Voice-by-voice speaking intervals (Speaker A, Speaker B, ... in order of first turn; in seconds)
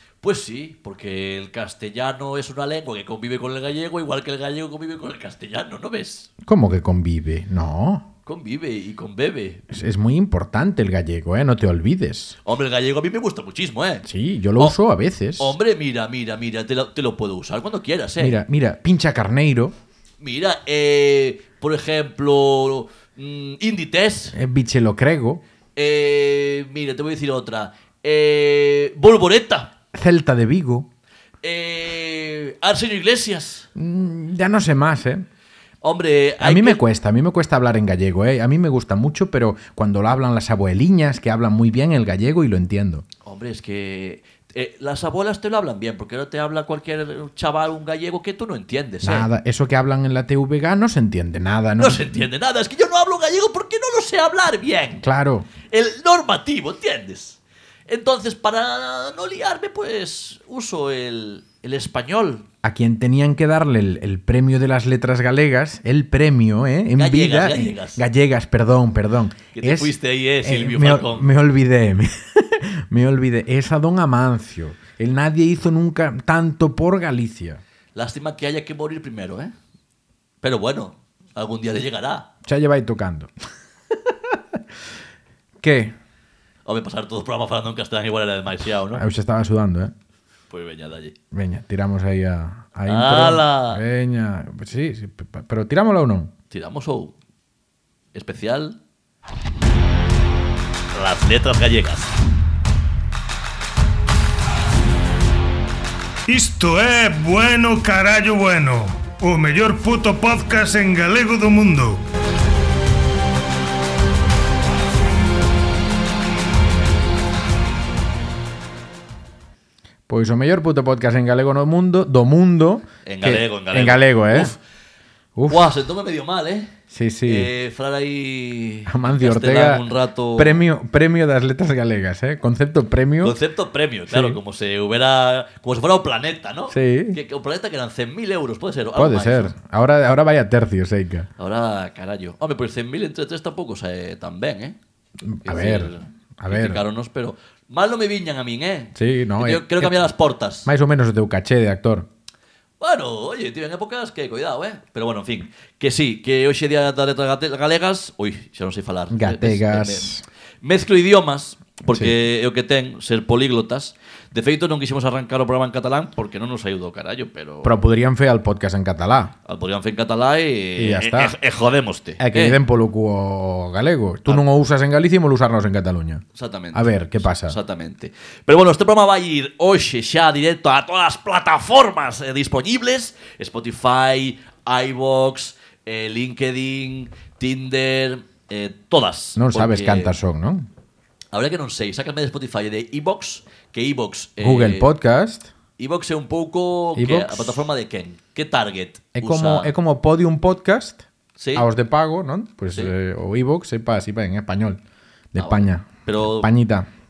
Speaker A: 0.2-6.3, 8.3-9.6, 12.4-14.1, 15.4-18.4, 20.2-24.4, 25.8-29.7, 31.4-33.7, 35.8-36.8, 43.2-49.3, 51.8-55.0, 55.7-62.5, 67.0-68.0, 69.5-71.3, 78.0-79.5, 80.4-82.3, 86.7-89.0, 90.5-91.2, 92.9-93.8, 96.5-97.2, 98.1-98.8, 100.9-102.2, 123.0-124.6, 125.5-126.7, 127.2-130.7, 133.2-139.5, 141.4-144.8, 145.4-150.7, 152.8-160.1, 160.6-167.7, 169.4-172.6, 176.3-190.2, 191.3-194.9, 195.8-199.7, 201.4-201.7, 205.4-206.5
Speaker B: 6.5-8.1, 9.7-12.4, 14.0-15.6, 18.2-19.7, 24.3-25.4, 29.9-30.9, 33.8-35.2, 36.4-43.0, 49.0-52.2, 55.0-55.5, 62.6-77.6, 82.5-83.3, 85.6-85.9, 88.9-89.9, 91.3-96.3, 120.1-124.5, 125.4-125.7, 126.9-127.5, 128.9-129.8, 130.4-133.4, 134.1-134.4, 136.7-137.2, 139.0-141.3, 145.2-146.8, 148.9-150.1, 150.7-152.1, 159.1-160.2, 161.9-162.2, 167.6-169.3, 170.8-171.3, 172.2-176.2, 176.7-177.6, 189.4-190.7, 194.4-195.5, 197.0-197.6, 199.2-201.0, 201.6-204.8, 205.3-206.9
Speaker C: 106.3-112.0